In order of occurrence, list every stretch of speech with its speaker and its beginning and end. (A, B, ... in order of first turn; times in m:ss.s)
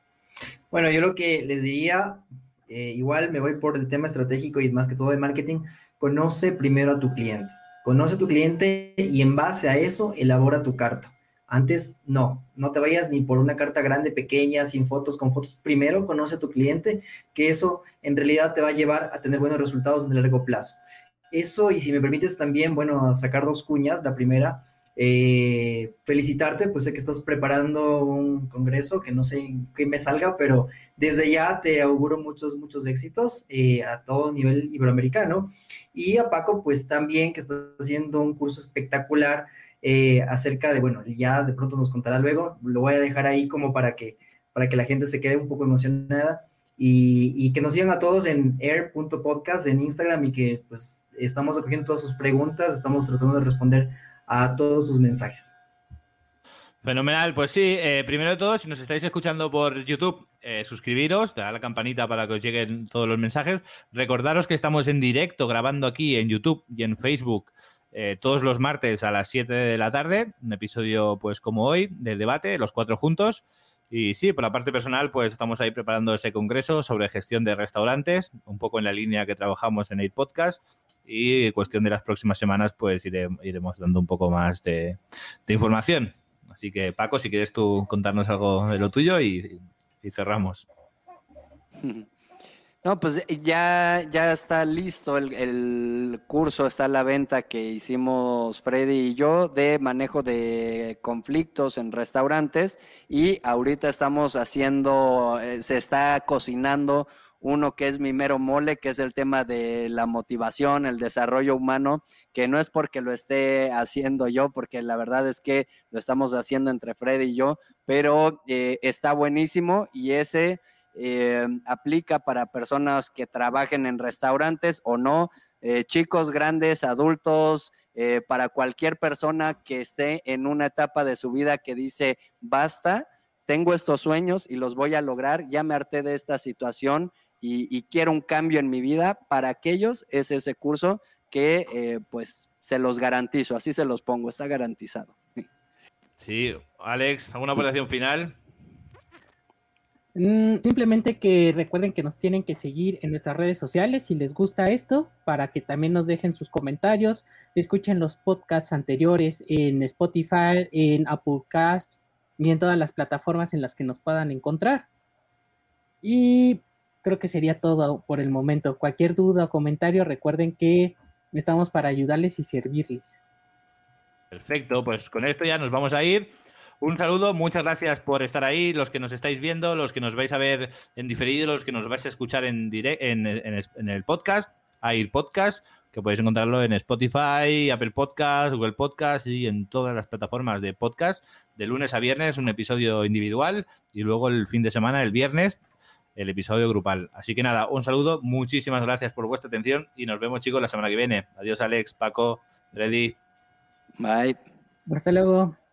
0:00.7-0:20.8 A
0:21.3-0:55.5 A
0:56.8-1:30.7 B
1:31.8-1:32.1 C
1:32.8-2:25.4 C
2:26.2-2:28.3 B
2:30.1-2:44.8 D
2:46.0-2:53.2 D
2:54.3-2:56.3 B
2:56.8-3:15.6 B
3:16.2-3:23.2 B
3:24.0-3:24.4 C
3:24.9-3:25.6 D